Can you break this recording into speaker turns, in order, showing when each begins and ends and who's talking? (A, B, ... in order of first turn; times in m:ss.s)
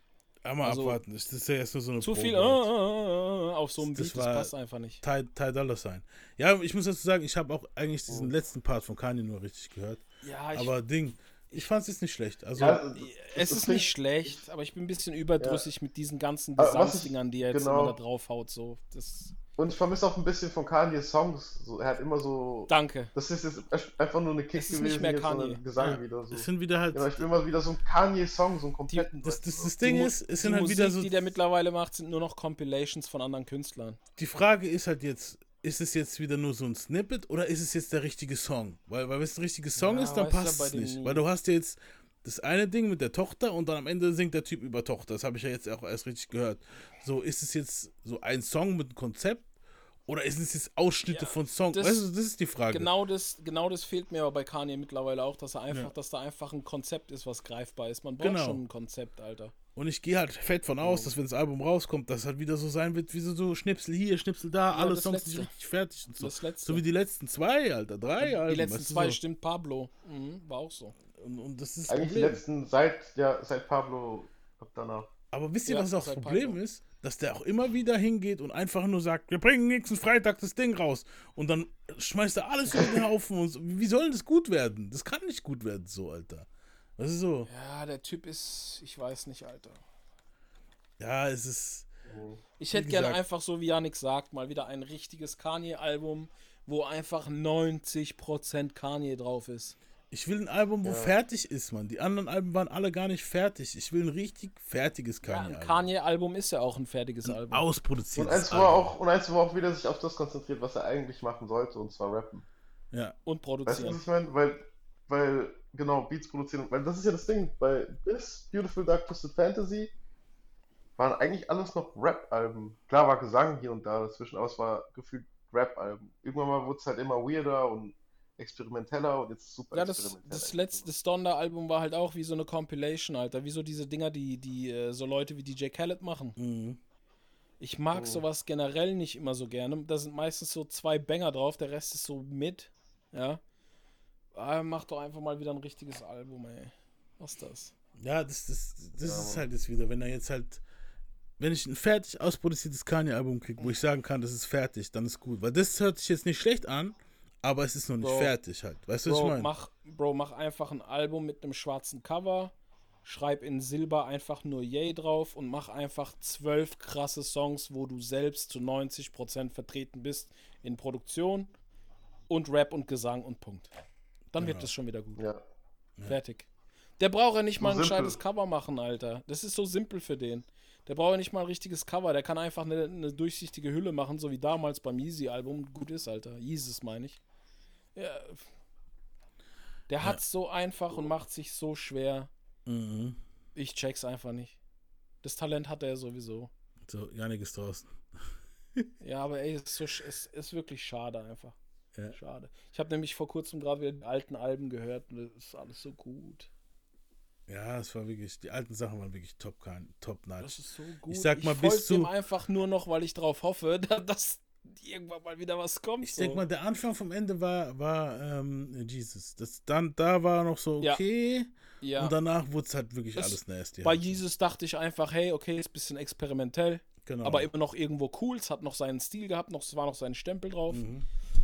0:00.4-0:02.7 A
0:00.6-0:01.0 B
0:02.0-0:05.0 B
0:03.8-0:12.8 A
0:10.2-0:10.7 B
0:12.5-0:14.4 C
0:12.9-0:19.3 B
0:15.4-0:15.6 C
0:16.6-0:18.0 C
0:19.6-0:29.8 C
0:22.7-0:23.1 B
0:24.6-0:25.6 B
0:25.8-0:27.3 A
0:29.2-0:31.3 A
0:29.8-0:34.0 B
0:34.2-0:49.5 A
0:39.8-0:41.2 B
0:50.1-0:52.9 A
0:51.1-0:52.1 B
0:52.7-0:59.5 B
0:58.2-0:58.6 A
0:59.7-1:09.2 A
1:04.7-1:05.5 B
1:06.2-1:06.8 B
1:08.2-1:10.9 B
1:11.2-1:12.4 A
1:11.9-1:15.1 C
1:15.3-1:26.5 A
1:15.7-1:16.6 B
1:27.0-1:27.5 A
1:27.5-1:29.8 B
1:31.0-1:31.9 A
1:32.1-1:32.4 C
1:32.6-1:39.8 B
1:32.7-1:33.2 A
1:40.1-1:45.8 A
1:40.8-1:41.1 C
1:45.2-1:47.6 B
1:47.3-1:48.9 A
1:48.1-1:52.4 C
1:53.2-1:54.0 B
1:53.6-1:59.9 C
2:01.0-2:10.9 C
2:09.7-2:16.4 B
2:16.4-2:16.8 A
2:17.6-2:23.4 B
2:17.9-2:18.2 C
2:24.3-2:27.7 B
2:28.0-2:30.6 A
2:29.0-2:29.4 C
2:31.4-2:39.5 A
2:38.0-2:38.3 B
2:39.0-2:42.5 B
2:43.0-2:51.5 B
2:52.3-2:53.7 B
2:54.3-2:55.2 B
2:54.4-2:54.7 A
2:55.2-2:55.4 C
2:56.1-2:56.5 B
2:57.0-3:07.2 B
2:57.6-2:58.2 C
3:07.9-3:08.4 B
3:09.9-3:12.3 B
3:12.6-3:13.2 A
3:13.5-3:14.6 B
3:15.2-3:16.5 B
3:16.9-3:17.9 A
3:19.0-3:21.6 B
3:22.1-3:26.5 B
3:27.5-3:32.1 A
3:30.4-3:36.4 B
3:36.0-3:44.2 A
3:41.8-3:42.1 B
3:43.2-3:50.8 B
3:47.0-3:47.5 A
3:50.7-3:51.0 A